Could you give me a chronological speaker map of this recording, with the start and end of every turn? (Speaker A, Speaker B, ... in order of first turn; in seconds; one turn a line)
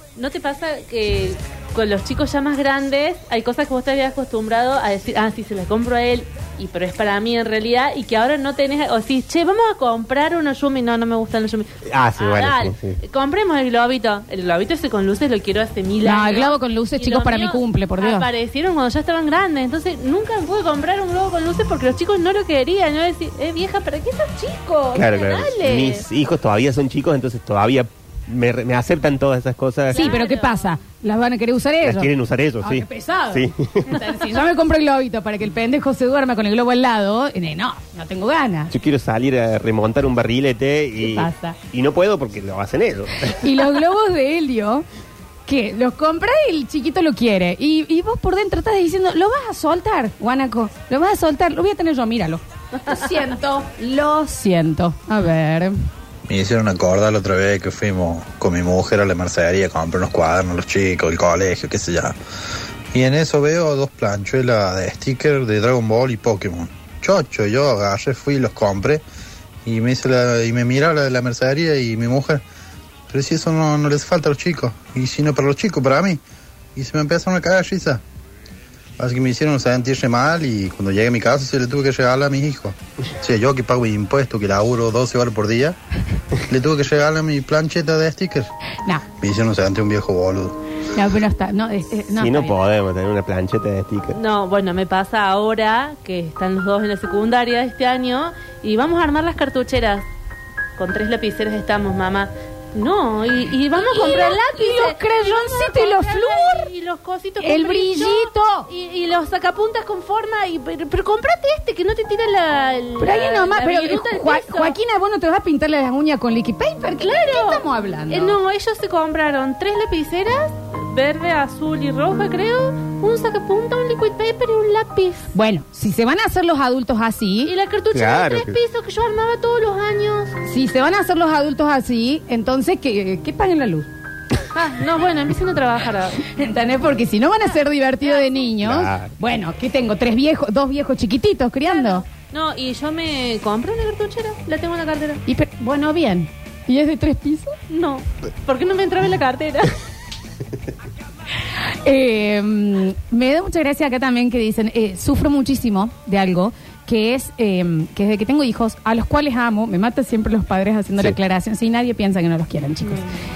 Speaker A: 0.2-26.1
Speaker B: 11.9-13.0
Speaker C: 16.0-18.3
Speaker B: 24.9-30.2
Speaker C: 29.9-38.7
Speaker A: 29.9-30.8
Speaker B: 31.8-33.9
Speaker B: 38.7-43.4
Speaker C: 41.0-41.6
Speaker C: 43.4-44.9
Speaker C: 45.5-55.8
Speaker D: 56.3-62.1
Speaker D: 62.9-69.0
Speaker D: 69.7-72.4
Speaker D: 73.1-76.2
Speaker D: 76.8-78.0
Speaker D: 79.0-85.8
Speaker D: 86.5-88.5
Speaker D: 89.2-90.5
Speaker C: 91.0-92.6
Speaker B: 92.2-94.2
Speaker A: 94.1-100.0
Speaker A: 100.8-114.8
Speaker C: 103.8-106.7
Speaker C: 107.4-108.7
Speaker C: 113.0-118.4
Speaker A: 117.0-125.3
Speaker C: 125.3-127.5
Speaker A: 127.5-130.3
Speaker B: 127.9-128.6
Speaker C: 130.4-133.9
Speaker A: 134.5-136.3
Speaker C: 136.3-142.0
Speaker A: 138.1-138.4
Speaker B: 138.6-139.1
Speaker A: 141.7-145.2
Speaker C: 145.3-147.5
Speaker A: 147.7-149.7
Speaker C: 151.8-163.1